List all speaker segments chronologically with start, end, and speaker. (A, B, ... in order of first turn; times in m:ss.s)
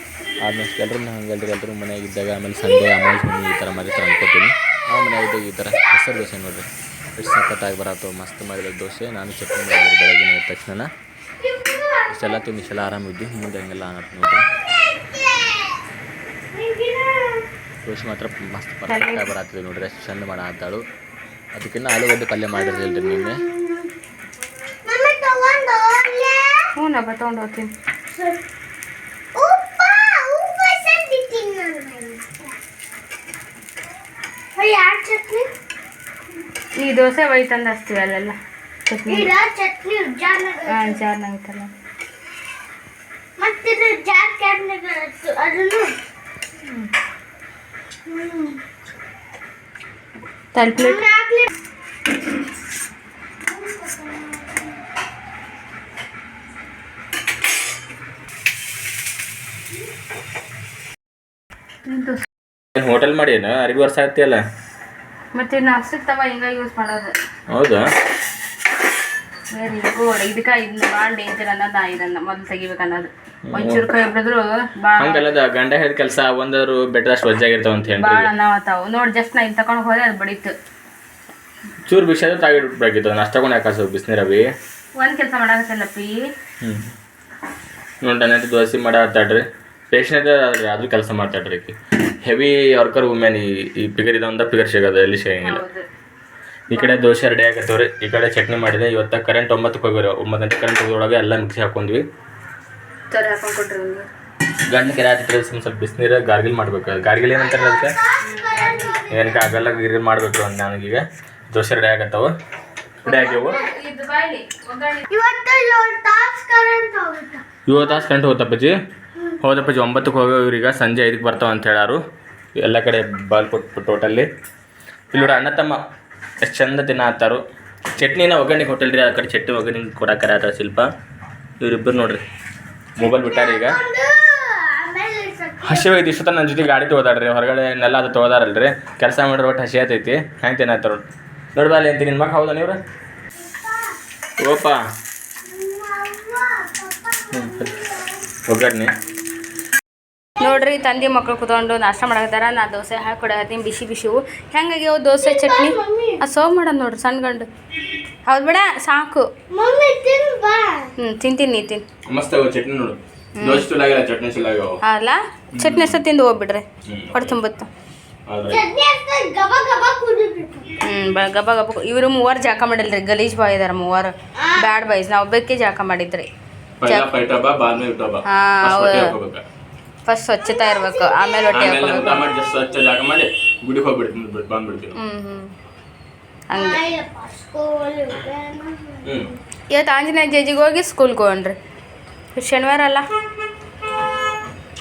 0:00.4-0:10.9 A
0:11.4-0:12.4 B
0:12.1-0:14.5 A
0:14.9-0:15.8 B
0:16.5-0:17.5 B
0:17.8-0:20.8 A
0:18.9-0:19.3 C
0:21.6-0:23.4 A
0:22.5-0:23.9 B
0:24.9-0:26.7 B
0:26.8-0:27.7 C
0:28.1-0:28.4 B
0:29.4-0:32.4 B
0:34.6-0:35.5 B
0:36.8-0:39.3 C
0:39.1-0:41.0 B
0:40.7-0:41.7 C
0:43.4-0:45.9 B
0:48.1-0:48.6 B
0:50.5-0:51.0 C
0:50.8-0:51.5 B
0:53.5-0:54.8 B
1:01.8-1:02.2 C
1:02.8-1:04.4 A
1:05.3-1:07.2 C
1:07.5-1:07.8 A
1:09.5-1:15.2 C
1:13.5-1:13.9 A
1:15.0-1:18.3 A
1:18.0-1:20.5 C
1:21.9-1:24.5 A
1:25.0-1:26.3 C
1:26.6-1:26.9 A
1:28.0-1:35.6 A
1:35.4-1:35.9 C
1:36.7-1:42.0 A
1:36.7-1:37.1 C
1:43.1-1:44.1 C
1:44.7-1:48.0 A
1:47.3-1:49.4 B
1:48.2-1:49.0 C
1:49.1-1:52.3 A
1:53.0-1:53.6 A
1:53.0-1:55.0 C
1:55.1-1:58.0 B
1:57.7-1:58.8 A
1:59.4-2:02.0 A
2:02.6-2:04.3 A
2:05.1-2:05.8 A
2:06.4-2:07.4 A
2:08.0-2:10.9 A
2:11.6-2:12.2 A
2:13.0-2:13.8 A
2:13.0-2:16.0 B
2:15.6-2:21.0 A
2:21.6-2:22.8 A
2:23.4-2:24.0 B
2:24.4-2:24.8 A
2:25.5-2:28.2 B
2:27.3-2:27.7 A
2:28.5-2:28.9 A
2:30.4-2:37.5 C
2:35.2-2:36.2 B
2:38.3-2:39.3 C
2:39.5-2:40.9 B
2:41.0-2:41.8 C
2:42.1-2:44.8 A
2:43.4-2:43.7 C
2:44.8-2:47.7 C
2:45.6-2:46.0 A
2:46.9-2:47.4 A
2:48.3-2:48.6 A
2:48.5-2:50.8 B
2:50.8-2:56.3 C
2:56.8-2:59.4 A
2:56.9-2:57.1 C
2:58.3-2:59.2 C
3:00.1-3:02.3 C
3:00.5-3:01.4 B
3:01.5-3:05.0 A
3:05.0-3:05.5 C
3:06.5-3:06.8 C
3:06.5-3:09.3 B
3:09.7-3:11.6 C
3:12.4-3:13.1 C